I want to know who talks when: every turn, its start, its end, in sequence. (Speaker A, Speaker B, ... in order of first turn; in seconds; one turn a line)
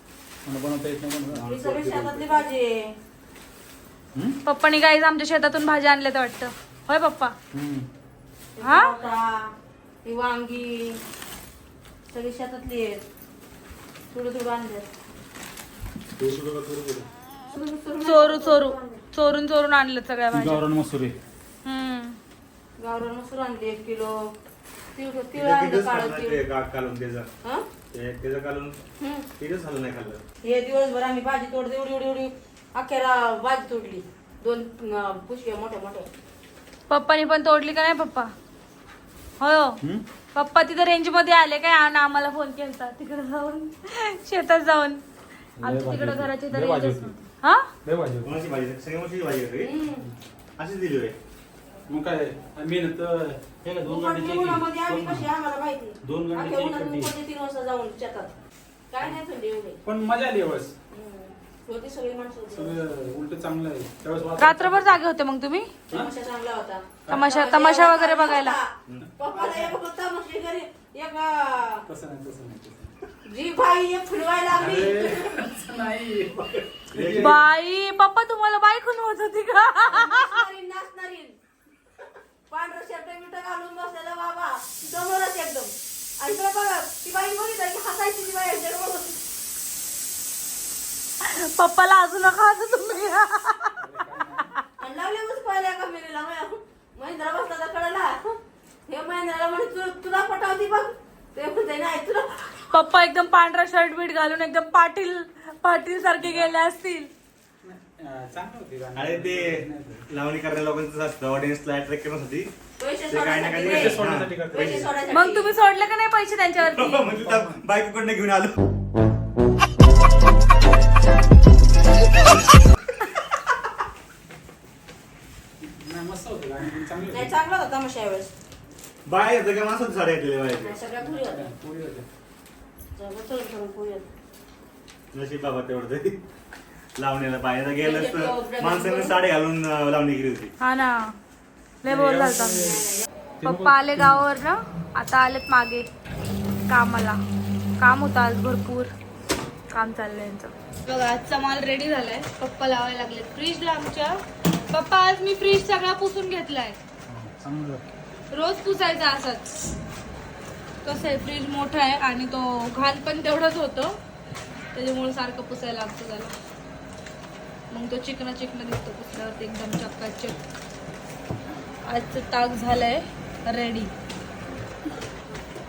Speaker A: 0.4-2.5
Speaker B: 1.3-3.0
Speaker C: 4.4-7.3
Speaker A: 7.5-7.9
Speaker B: 8.6-9.5
Speaker C: 8.6-8.9
Speaker B: 10.0-11.0
Speaker B: 12.1-13.0
Speaker B: 14.1-14.9
Speaker D: 16.2-17.1
Speaker B: 17.5-19.0
Speaker C: 18.0-20.6
Speaker A: 20.3-21.2
Speaker C: 21.6-22.2
Speaker B: 22.8-24.3
Speaker B: 24.9-26.4
Speaker D: 25.3-27.3
Speaker D: 27.9-28.8
Speaker B: 29.0-29.3
Speaker D: 29.4-30.2
Speaker B: 30.4-36.1
Speaker C: 36.9-38.3
Speaker C: 39.4-39.8
Speaker C: 40.3-45.0
Speaker A: 45.6-47.2
Speaker C: 45.6-47.7
Speaker A: 47.8-48.3
Speaker D: 48.2-49.8
Speaker B: 49.6-50.1
Speaker D: 50.6-51.1
Speaker A: 51.9-55.3
Speaker B: 53.8-58.3
Speaker A: 56.0-57.1
Speaker B: 58.9-59.8
Speaker A: 59.8-60.7
Speaker B: 60.9-62.8
Speaker A: 62.5-64.9
Speaker C: 64.4-65.7
Speaker B: 65.9-71.8
Speaker A: 67.0-67.3
Speaker C: 67.1-68.6
Speaker A: 69.4-69.7
Speaker A: 71.8-72.9
Speaker B: 73.2-75.3
Speaker A: 74.6-77.4
Speaker D: 76.9-77.4
Speaker C: 77.2-80.4
Speaker B: 79.8-81.3
Speaker B: 82.5-89.2
Speaker C: 91.2-93.8
Speaker A: 93.8-94.5
Speaker B: 94.8-98.3
Speaker B: 98.9-102.5
Speaker C: 102.7-107.1
Speaker A: 106.2-106.5
Speaker A: 107.6-110.0
Speaker D: 109.0-112.5
Speaker B: 112.8-115.5
Speaker D: 113.1-114.9
Speaker A: 113.5-114.9
Speaker C: 115.1-117.0
Speaker D: 116.6-118.7
Speaker A: 117.0-117.6
Speaker A: 125.6-127.3
Speaker B: 127.1-128.3
Speaker D: 129.1-130.8
Speaker B: 130.6-131.5
Speaker A: 131.0-132.1
Speaker B: 132.9-134.1
Speaker D: 135.1-136.2
Speaker D: 137.0-140.5
Speaker B: 137.8-139.2
Speaker C: 140.6-141.2
Speaker C: 141.8-142.8
Speaker A: 141.8-142.9
Speaker A: 143.4-144.2
Speaker C: 143.4-145.9
Speaker C: 146.7-147.2
Speaker C: 147.8-148.9
Speaker C: 149.7-156.8
Speaker A: 157.1-157.8
Speaker C: 158.3-159.6
Speaker C: 160.8-164.0
Speaker C: 164.7-166.3
Speaker C: 167.7-170.4
Speaker C: 171.8-173.9